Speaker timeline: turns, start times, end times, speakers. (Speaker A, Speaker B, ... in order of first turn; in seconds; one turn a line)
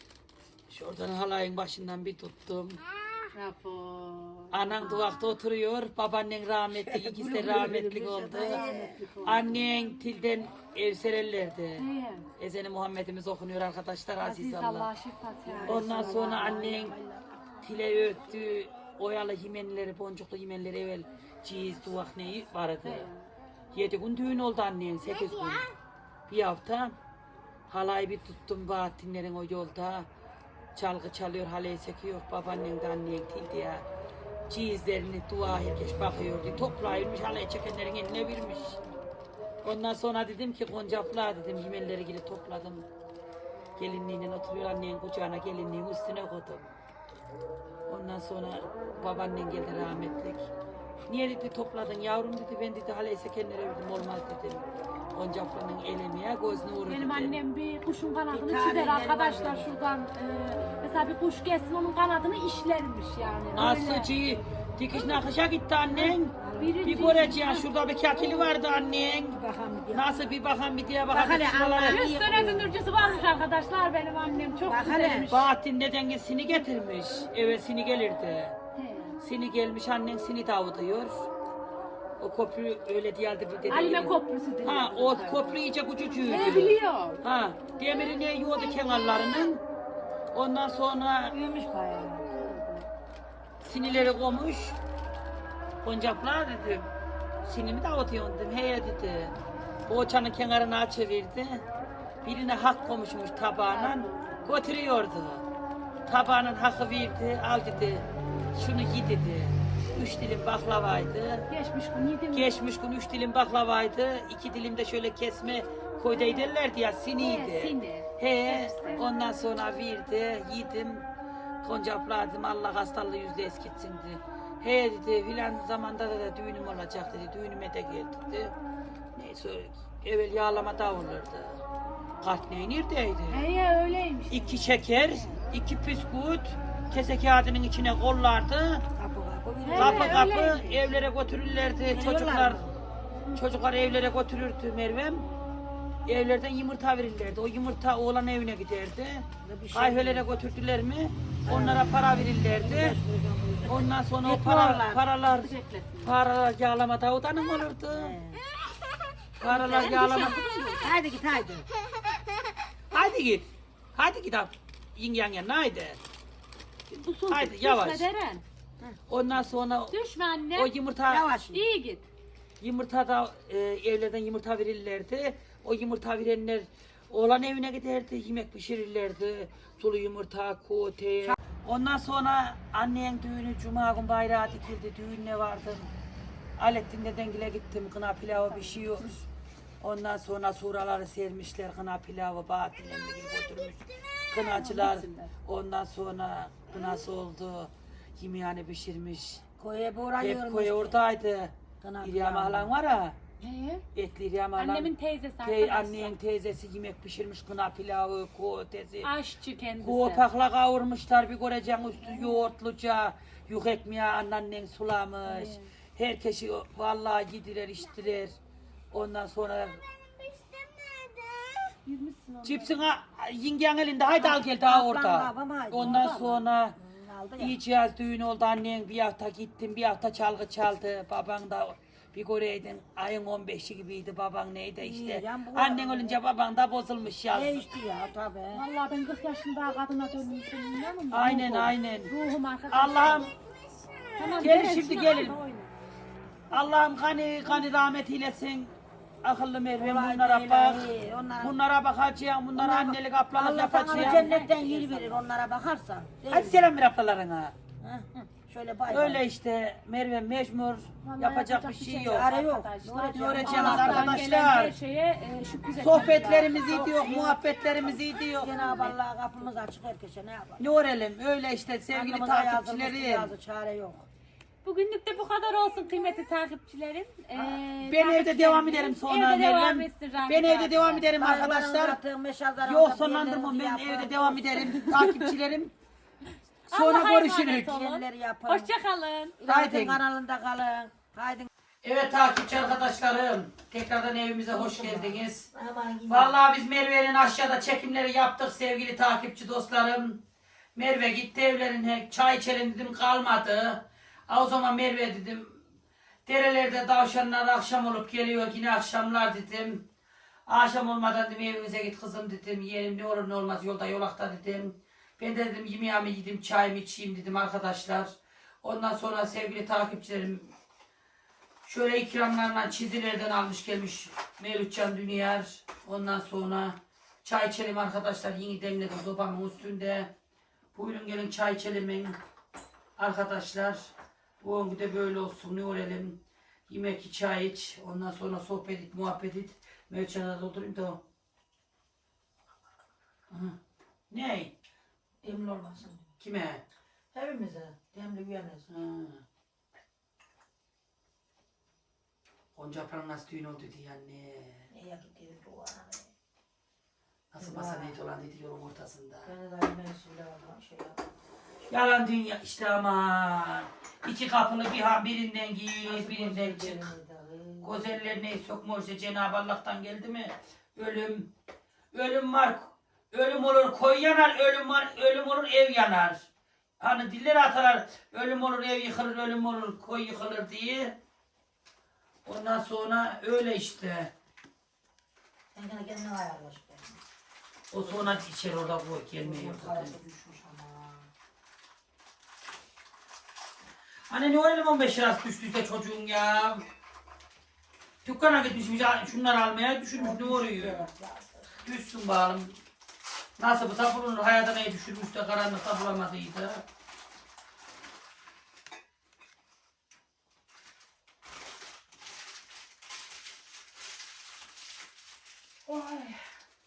Speaker A: 0.7-2.8
Speaker B: 3.3-5.0
Speaker A: 4.5-8.6
Speaker C: 6.7-9.6
Speaker B: 8.3-9.5
Speaker A: 9.2-11.8
Speaker B: 11.8-12.3
Speaker A: 12.4-14.9
Speaker B: 14.2-16.5
Speaker C: 15.4-17.6
Speaker A: 15.6-16.9
Speaker A: 17.6-23.1
Speaker B: 22.8-23.2
Speaker A: 23.7-25.7
Speaker A: 26.3-26.9
Speaker A: 27.7-30.1
Speaker A: 30.7-33.8
Speaker A: 34.5-38.8
Speaker A: 39.6-42.8
Speaker A: 43.8-46.7
Speaker A: 47.9-50.5
Speaker A: 51.1-57.4
Speaker B: 56.9-64.2
Speaker C: 58.3-59.7
Speaker A: 63.5-69.4
Speaker B: 65.9-67.7
Speaker C: 66.3-67.2
Speaker C: 68.2-68.5
Speaker C: 69.3-70.3
Speaker A: 69.9-72.0
Speaker C: 71.1-72.8
Speaker B: 71.8-75.5
Speaker C: 74.6-75.3
Speaker A: 75.3-78.5
Speaker B: 78.7-79.2
Speaker A: 79.2-81.3
Speaker A: 82.2-89.6
Speaker B: 83.7-85.6
Speaker B: 86.2-87.2
Speaker A: 90.3-91.3
Speaker C: 91.3-92.6
Speaker B: 92.3-92.9
Speaker A: 93.6-94.8
Speaker A: 95.8-96.9
Speaker A: 97.4-99.3
Speaker A: 99.9-101.6
Speaker A: 102.2-105.4
Speaker B: 103.7-104.5
Speaker A: 106.0-111.5
Speaker B: 111.5-112.5
Speaker A: 112.3-121.0
Speaker B: 116.1-116.5
Speaker B: 117.2-119.1
Speaker A: 121.6-128.5
Speaker A: 129.2-131.6
Speaker A: 132.2-133.4
Speaker B: 133.3-134.9
Speaker A: 134.3-138.8
Speaker C: 138.9-140.9
Speaker B: 139.6-140.8
Speaker A: 139.8-142.6
Speaker C: 141.9-142.8
Speaker A: 143.3-145.2
Speaker A: 146.1-153.0
Speaker C: 149.4-150.4
Speaker C: 151.4-155.0
Speaker A: 153.7-155.5
Speaker B: 155.2-156.2
Speaker A: 156.0-158.2
Speaker C: 157.9-158.4
Speaker A: 159.4-160.4
Speaker B: 159.5-160.9
Speaker C: 160.8-161.7
Speaker A: 162.9-166.0
Speaker B: 166.9-168.4
Speaker A: 167.3-168.1
Speaker A: 169.1-169.9
Speaker B: 169.9-170.7
Speaker A: 170.5-171.3
Speaker C: 171.1-171.7
Speaker B: 171.5-172.1
Speaker A: 172.6-185.9
Speaker A: 186.6-189.2
Speaker B: 188.3-189.1
Speaker A: 189.8-199.4
Speaker B: 194.4-195.3
Speaker C: 199.6-201.0
Speaker A: 200.2-203.2
Speaker C: 201.8-202.7
Speaker B: 203.4-203.8
Speaker A: 203.9-204.9
Speaker B: 204.6-206.2
Speaker A: 205.4-209.1
Speaker B: 209.0-210.2
Speaker A: 209.8-218.3
Speaker B: 212.1-212.4
Speaker B: 215.2-215.7
Speaker A: 218.9-219.8
Speaker C: 220.3-221.7
Speaker B: 221.8-222.9
Speaker A: 222.4-226.8
Speaker C: 224.2-226.2
Speaker B: 225.8-226.4
Speaker C: 226.7-227.6
Speaker A: 227.4-237.6
Speaker C: 234.8-236.2
Speaker C: 237.3-238.6
Speaker B: 238.5-243.3
Speaker A: 241.1-242.1
Speaker A: 242.7-243.3
Speaker C: 243.7-244.4
Speaker B: 244.2-245.7
Speaker A: 244.4-245.4
Speaker A: 246.5-248.7
Speaker A: 249.2-255.2
Speaker C: 249.8-251.6
Speaker C: 252.6-256.7
Speaker B: 253.9-254.5
Speaker A: 256.3-257.5
Speaker C: 257.8-259.2
Speaker A: 258.9-262.3
Speaker B: 261.0-266.9
Speaker C: 262.1-264.2
Speaker A: 263.1-264.7
Speaker A: 265.7-268.9
Speaker C: 266.5-267.4
Speaker C: 268.1-270.7
Speaker B: 268.3-268.9
Speaker A: 270.6-273.3
Speaker C: 271.9-274.1
Speaker B: 274.6-281.1
Speaker A: 277.3-282.0
Speaker C: 281.1-284.9
Speaker A: 282.6-285.7
Speaker B: 284.8-285.3
Speaker B: 286.7-289.4
Speaker A: 286.7-287.8
Speaker C: 287.5-288.7
Speaker C: 289.4-291.5
Speaker A: 289.4-290.0
Speaker A: 291.8-295.5
Speaker C: 294.5-296.4
Speaker A: 296.1-300.2
Speaker A: 300.8-305.6
Speaker A: 306.2-309.8
Speaker A: 310.5-320.5
Speaker A: 321.6-330.1
Speaker A: 330.7-332.1
Speaker A: 333.0-341.0
Speaker A: 343.3-343.6
Speaker A: 344.1-344.5
Speaker C: 345.2-346.1
Speaker A: 346.2-346.6
Speaker C: 347.1-348.7
Speaker A: 348.7-349.2
Speaker A: 352.6-354.7
Speaker C: 354.7-356.1
Speaker A: 357.3-359.3
Speaker C: 357.4-357.9
Speaker C: 359.2-361.1
Speaker A: 361.7-366.9
Speaker C: 365.8-368.0
Speaker A: 367.6-371.3
Speaker A: 371.9-376.2
Speaker A: 376.8-380.9
Speaker A: 382.2-384.1
Speaker C: 385.5-387.0
Speaker A: 387.7-389.9
Speaker C: 387.8-388.2
Speaker C: 389.2-391.1
Speaker A: 394.1-396.6
Speaker A: 398.0-400.8
Speaker C: 399.9-401.6
Speaker A: 401.6-402.5
Speaker A: 403.4-406.6
Speaker C: 415.6-416.2